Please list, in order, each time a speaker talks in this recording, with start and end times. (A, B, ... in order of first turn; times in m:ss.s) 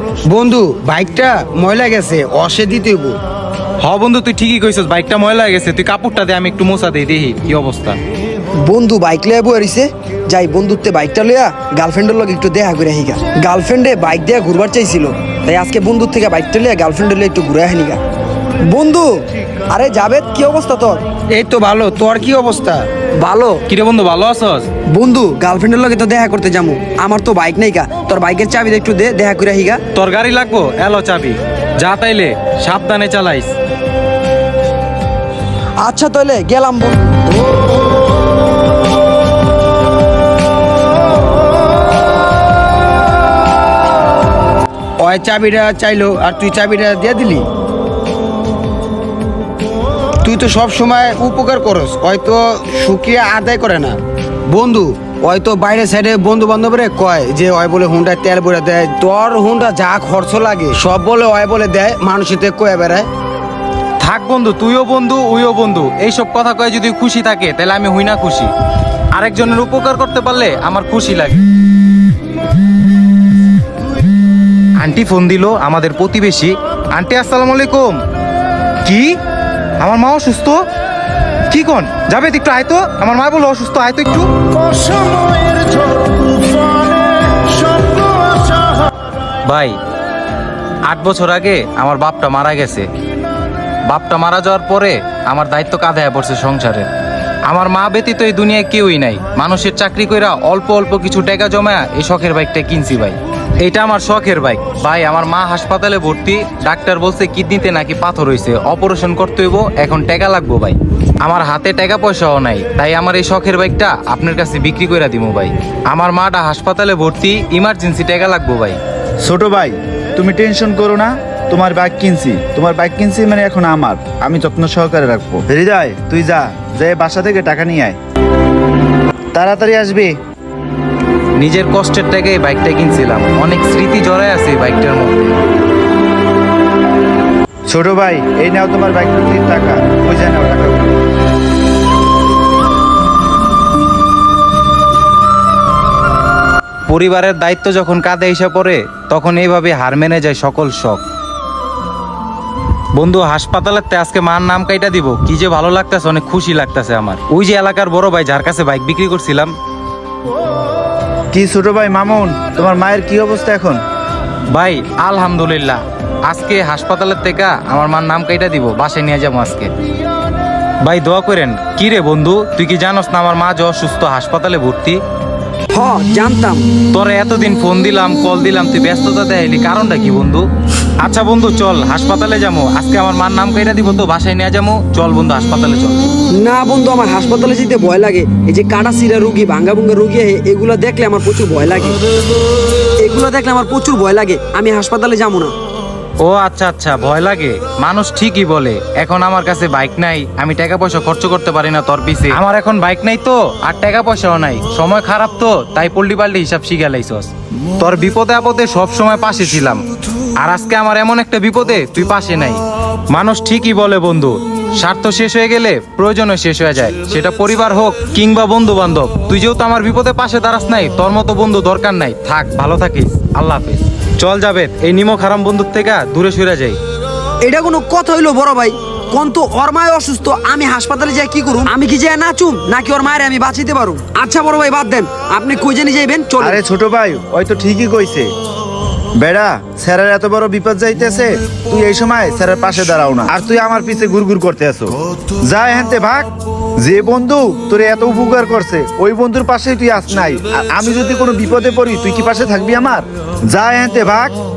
0:00.2-0:03.2 A
0:03.8-0:08.0 B
0:08.6-0:18.0 C
0:18.7-0:19.1 C
0:19.7-0:21.0 C
0:21.3-0:22.8 A
0:23.2-0:23.6 C
0:23.7-0:24.7 B
0:24.9-0:29.8 C
0:29.9-0:33.6 B
0:35.8-0:37.2 C
0:45.0-0:47.5 A
0:50.2-1:03.1 A
1:04.0-1:08.5 B
1:09.1-1:11.5 B
1:14.8-1:18.0 B
1:18.8-1:19.2 B
1:19.8-1:20.6 B
1:21.5-1:25.2 B
1:29.5-1:29.8 B
1:30.9-1:32.9 B
1:33.9-1:36.9 B
1:37.5-1:58.8 B
1:59.2-2:08.0 D
2:09.3-2:10.2 D
2:11.4-2:15.4 B
2:17.7-2:21.0 D
2:26.9-2:31.0 B
2:33.0-2:39.5 B
2:41.3-2:43.8 D
2:44.5-2:49.7 B
2:50.8-2:55.0 B
2:55.7-2:56.7 C
2:56.9-3:00.4 B
3:01.0-3:06.1 B
3:06.3-3:12.0 C
3:13.0-3:15.5 C
3:16.2-3:29.8 B
3:30.4-3:46.8 B
3:47.4-3:56.6 C
3:56.4-3:58.3 D
3:59.2-4:06.3 D
4:06.8-4:14.3 D